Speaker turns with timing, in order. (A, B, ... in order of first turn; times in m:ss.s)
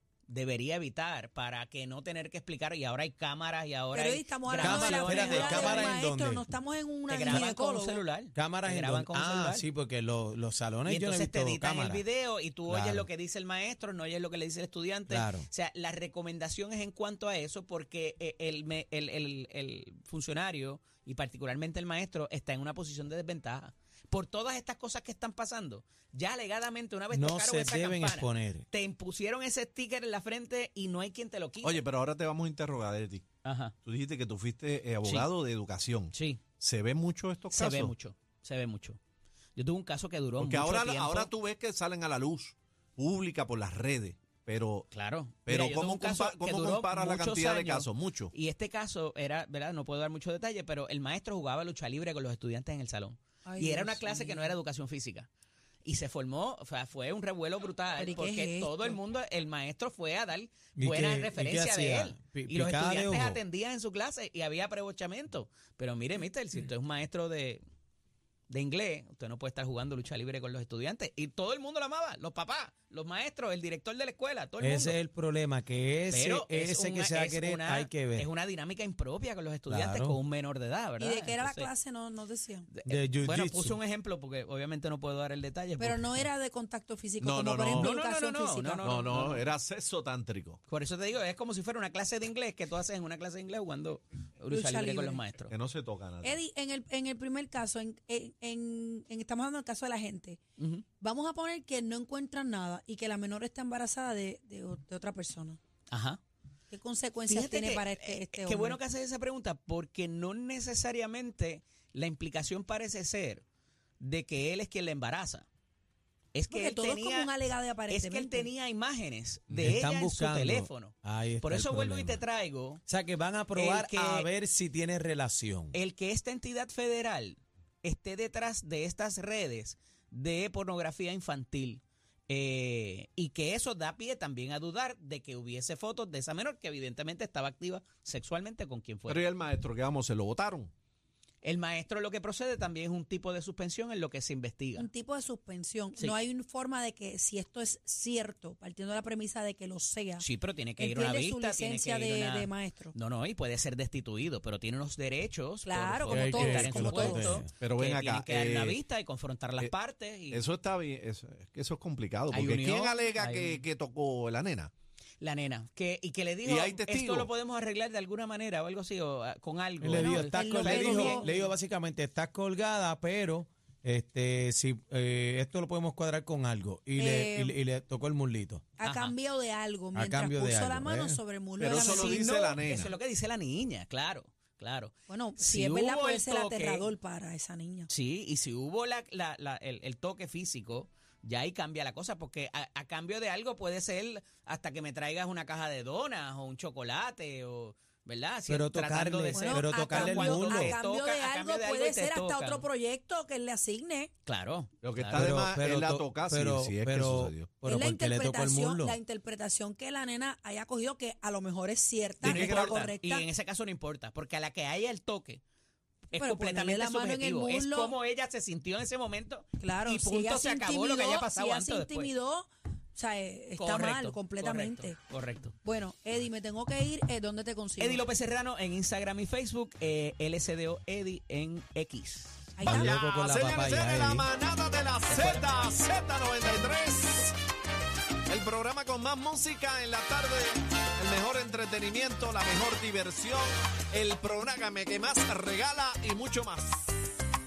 0:00.3-0:06.0 A
0:03.9-0:08.0 B
0:04.6-0:06.4 C
0:07.1-0:09.6 A
0:08.3-0:12.0 C
0:10.8-0:31.8 A
0:12.7-0:13.1 C
0:15.1-0:15.5 C
0:27.1-0:28.6 C
0:31.6-0:33.2 D
0:33.4-0:33.7 A
0:33.8-0:37.9 D
0:35.0-0:35.3 A
0:36.1-0:36.4 A
0:37.5-0:39.0 A
0:39.6-0:41.3 A
0:40.4-0:44.9 D
0:44.9-0:55.3 A
0:45.4-0:48.3 D
0:53.4-0:54.6 B
0:55.8-1:07.6 A
0:58.0-0:59.0 B
1:00.8-1:03.4 C
1:08.5-1:15.0 A
1:14.6-1:18.3 C
1:16.1-1:21.7 A
1:19.7-1:20.2 C
1:21.0-1:22.7 B
1:22.7-1:26.3 A
1:22.8-1:23.8 C
1:25.8-1:28.9 B
1:27.2-1:27.9 D
1:27.7-1:29.4 A
1:28.8-1:30.6 D
1:30.7-1:35.5 A
1:34.5-1:35.2 B
1:35.5-1:36.4 D
1:36.2-1:40.4 B
1:40.6-1:40.8 A
1:41.0-1:45.6 B
1:45.9-1:46.2 A
1:46.7-1:48.8 B
1:47.3-1:53.4 A
1:54.0-1:55.5 A
1:56.3-1:57.3 A
1:56.5-1:58.5 B
1:57.9-2:02.8 A
1:59.5-2:02.2 C
2:02.9-2:05.8 C
2:03.5-2:04.3 A
2:05.7-2:19.2 A
2:19.1-2:20.7 D
2:21.4-2:24.9 A
2:24.8-2:30.2 B
2:30.2-2:40.4 A
2:30.8-2:32.9 B
2:35.6-2:37.4 B
2:36.1-2:37.5 C
2:37.6-2:38.8 D
2:40.3-2:44.7 D
2:42.3-2:43.6 A
2:45.2-2:51.5 A
2:46.4-2:47.3 D
2:49.8-2:58.6 C
2:50.0-2:51.3 B
2:57.0-2:57.6 B
2:58.8-3:02.5 B
2:58.8-2:59.1 A
2:59.9-3:01.2 C
3:01.6-3:02.9 D
3:01.7-3:06.9 A
3:05.1-3:07.9 B
3:07.9-3:22.6 A
3:18.5-3:20.8 C
3:19.3-3:24.1 B
3:24.2-3:25.2 A
3:24.8-3:27.5 D
3:25.1-3:29.0 C
3:27.6-3:33.2 B
3:32.2-3:35.4 A
3:32.2-3:32.7 D
3:36.1-3:42.1 A
3:36.1-3:37.9 B
3:39.6-3:45.0 B
3:43.6-3:45.6 A
3:45.6-3:48.0 B
3:47.8-3:52.5 A
3:52.6-3:52.9 B
3:52.6-3:54.2 C
3:52.6-3:57.3 D
3:55.1-3:55.4 A
3:58.3-4:06.9 D